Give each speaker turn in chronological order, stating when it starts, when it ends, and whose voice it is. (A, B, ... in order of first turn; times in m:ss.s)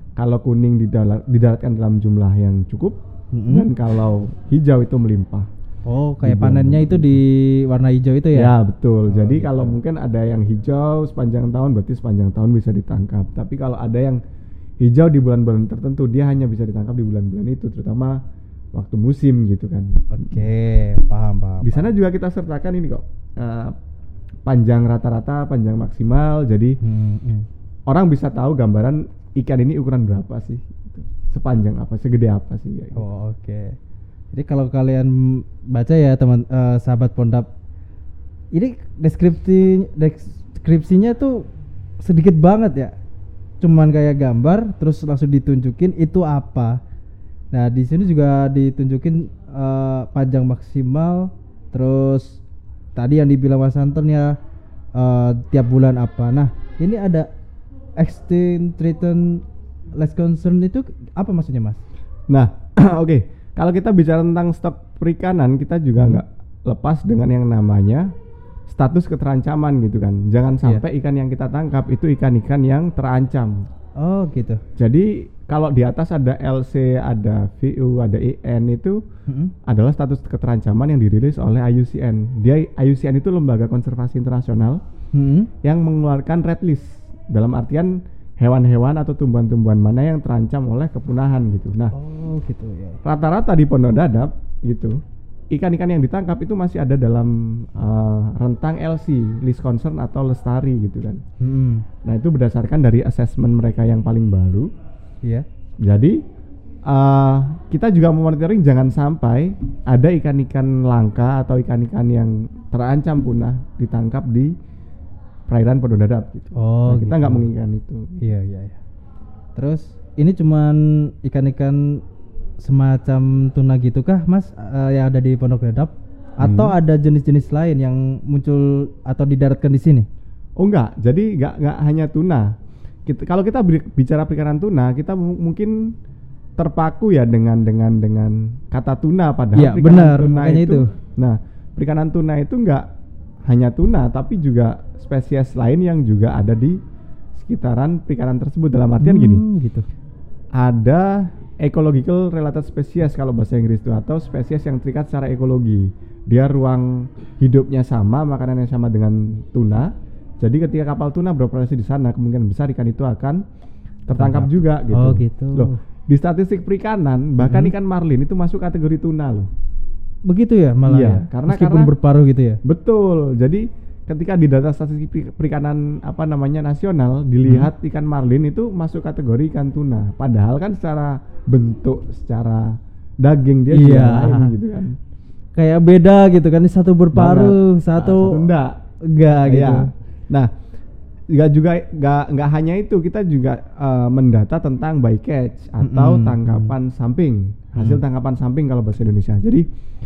0:00.2-0:05.5 A
0:03.3-0:03.7 B
0:05.9-0:08.5 B
0:06.2-0:07.2 A
0:08.3-0:14.2 A
0:09.1-0:09.8 B
0:14.8-0:18.2 A
0:18.8-0:20.0 A
0:20.1-0:21.9 B
0:21.6-0:23.7 A
0:24.5-0:26.8 A
0:26.8-0:27.5 B
0:27.9-0:33.2 A
0:33.0-0:33.8 B
0:34.3-0:37.5 B
0:38.5-0:41.5 B
0:42.0-0:42.9 B
0:43.6-0:46.8 B
0:47.5-0:52.4 B
0:53.0-0:54.4 B
0:55.0-0:57.3 B
0:58.0-0:59.4 B
1:00.0-1:01.8 B
1:02.3-1:08.1 A
1:06.0-1:06.2 B
1:08.7-1:13.6 A
1:14.0-1:14.6 B
1:14.8-1:19.0 A
1:19.3-1:19.5 B
1:19.7-1:24.8 A
1:25.1-1:25.5 B
1:25.6-1:31.9 A
1:31.9-1:33.0 B
1:33.0-1:35.0 A
1:35.5-1:41.2 A
1:41.4-1:41.8 B
1:42.0-1:44.7 A
1:45.8-1:46.2 A
1:46.9-1:54.5 A
1:55.5-1:58.1 A
1:56.6-1:57.5 B
1:58.2-1:58.8 B
1:59.6-2:02.0 B
2:02.6-2:10.1 B
2:06.4-2:06.8 A
2:10.6-2:12.5 A
2:13.1-2:15.8 A
2:16.6-2:22.8 A
2:19.6-2:20.9 B
2:23.5-2:26.8 A
2:27.4-2:29.4 A
2:29.0-2:29.9 B
2:30.6-2:43.4 A
2:44.1-2:49.5 A
2:44.2-2:45.8 B
2:47.4-2:47.7 B
2:50.3-2:52.6 B
2:50.9-2:51.9 A
2:52.6-3:05.0 A
2:57.4-2:57.7 B
3:03.7-3:04.5 B
3:05.6-3:08.4 B
3:07.1-3:08.8 A
3:09.1-3:09.9 B
3:09.4-3:10.5 A
3:11.3-3:19.6 A
3:15.8-3:16.7 B
3:17.8-3:18.0 B